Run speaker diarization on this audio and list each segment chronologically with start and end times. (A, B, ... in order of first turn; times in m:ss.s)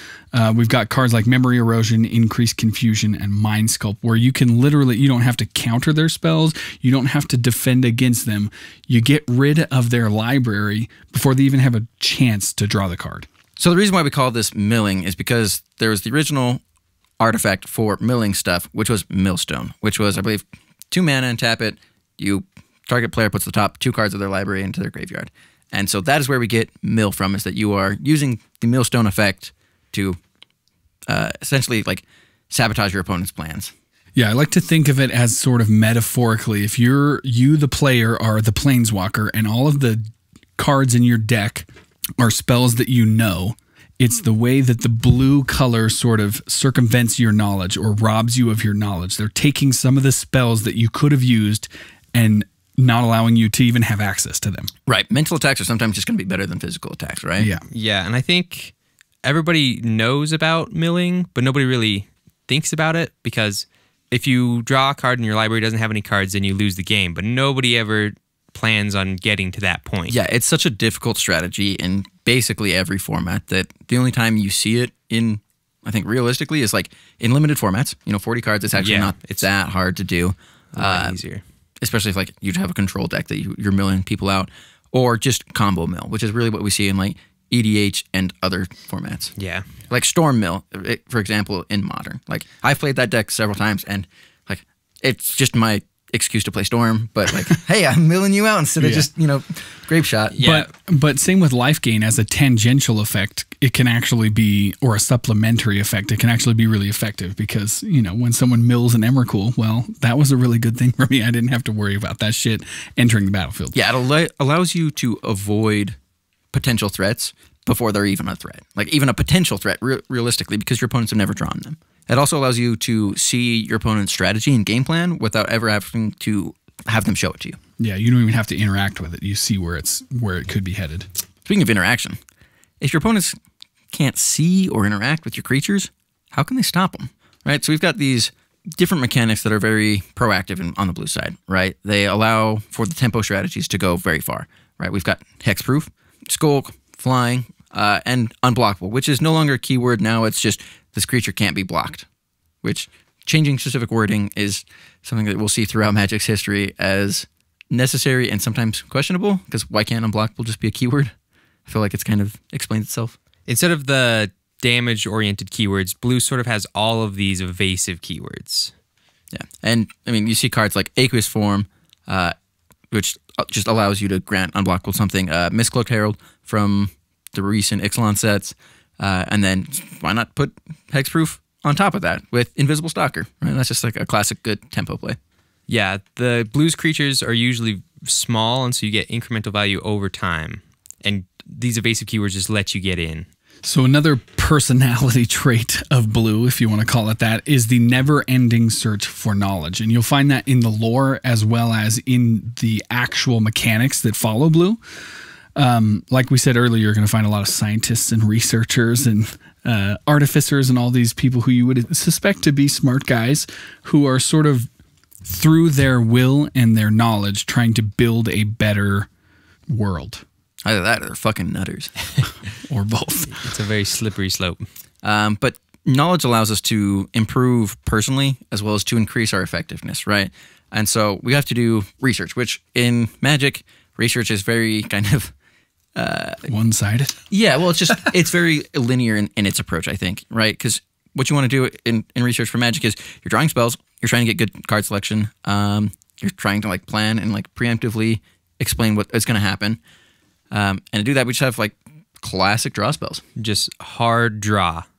0:00.3-0:13.3 A
0:13.6-0:16.6 B
0:17.2-0:30.2 B
0:31.1-0:33.7 B
0:34.2-0:41.7 A
0:42.2-0:54.7 A
0:54.9-0:57.5 B
0:57.4-0:57.6 A
0:57.7-1:10.2 C
1:10.1-1:21.2 B
1:18.8-1:19.5 C
1:20.7-1:21.4 C
1:21.8-1:29.3 B
1:29.4-1:29.7 C
1:29.9-1:40.4 B
1:38.8-1:39.1 A
1:40.3-1:40.7 C
1:40.4-1:53.8 A
1:53.7-1:56.0 B
1:56.5-2:07.6 B
2:07.8-2:11.1 A
2:11.4-2:12.2 B
2:12.8-2:13.4 B
2:13.9-2:32.0 B
2:32.6-2:41.1 B
2:41.6-2:43.2 B
2:43.5-2:48.7 C
2:49.3-2:52.3 B
2:52.9-3:05.2 B
3:05.7-3:13.3 C
3:13.6-3:24.8 A
3:25.6-3:34.7 A
3:35.2-3:39.1 A
3:39.7-3:40.2 A
3:40.6-3:42.1 B
3:42.7-3:43.4 A
3:43.3-3:44.6 C
3:45.0-3:55.3 B
3:55.9-3:56.5 B
3:56.5-3:57.2 A
3:57.3-4:09.8 B
4:10.5-4:13.2 B
4:13.4-4:14.8 C